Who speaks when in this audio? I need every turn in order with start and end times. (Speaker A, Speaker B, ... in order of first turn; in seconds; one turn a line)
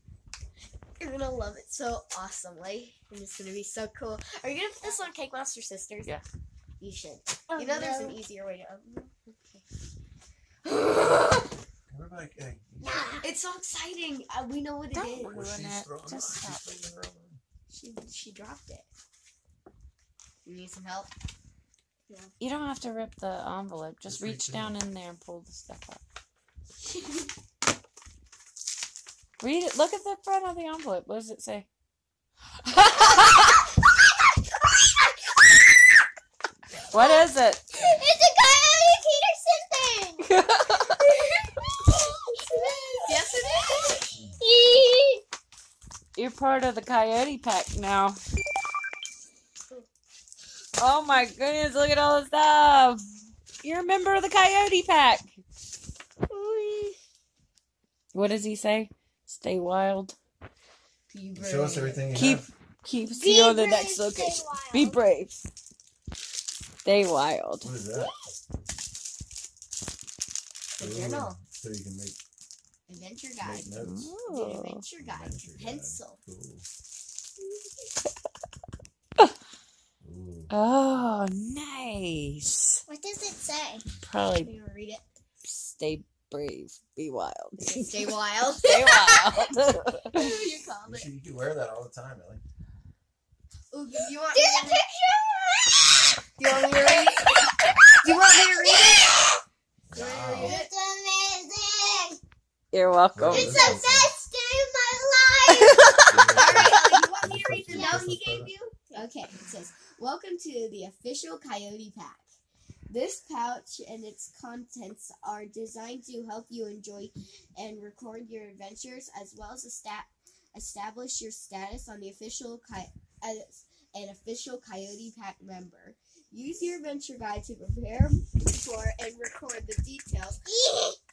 Speaker A: 1.0-6.1
Speaker B: 4.8-5.1
Speaker A: 6.8-9.6
Speaker B: 7.5-8.2
Speaker C: 11.9-12.8
Speaker B: 12.8-13.3
Speaker A: 13.2-15.4
Speaker D: 14.9-16.8
Speaker C: 15.2-17.4
Speaker A: 17.7-18.9
Speaker A: 20.4-21.1
Speaker D: 22.4-26.0
Speaker C: 24.1-24.8
Speaker D: 29.4-31.7
Speaker D: 32.6-33.6
Speaker D: 36.9-37.7
Speaker B: 36.9-40.3
Speaker D: 40.2-41.0
Speaker B: 41.0-45.2
Speaker A: 43.0-44.2
Speaker D: 46.1-48.2
Speaker D: 50.8-53.0
Speaker D: 53.6-55.3
Speaker B: 56.3-57.0
Speaker D: 58.1-60.2
Speaker A: 61.1-62.2
Speaker C: 61.4-62.5
Speaker D: 62.1-65.4
Speaker B: 63.0-65.0
Speaker D: 66.8-67.7
Speaker C: 67.6-68.1
Speaker B: 67.9-68.2
Speaker A: 70.8-71.4
Speaker C: 70.8-72.2
Speaker A: 72.9-76.2
Speaker C: 73.4-74.1
Speaker D: 73.8-74.8
Speaker C: 75.0-76.7
Speaker C: 80.0-80.5
Speaker D: 80.5-82.8
Speaker B: 82.9-83.8
Speaker D: 84.0-84.5
Speaker A: 84.4-85.0
Speaker D: 85.4-90.2
Speaker A: 87.6-88.9
Speaker A: 90.1-91.1
Speaker C: 90.8-92.4
Speaker A: 93.7-94.8
Speaker B: 94.3-99.4
Speaker A: 96.4-97.4
Speaker A: 98.0-99.2
Speaker C: 99.9-100.6
Speaker A: 99.9-100.7
Speaker B: 99.9-102.2
Speaker D: 102.7-103.8
Speaker C: 103.1-104.2
Speaker B: 103.3-106.7
Speaker D: 105.5-106.8
Speaker C: 106.0-108.5
Speaker A: 106.3-112.3
Speaker B: 107.7-108.0
Speaker A: 112.9-130.4
Speaker B: 130.5-131.0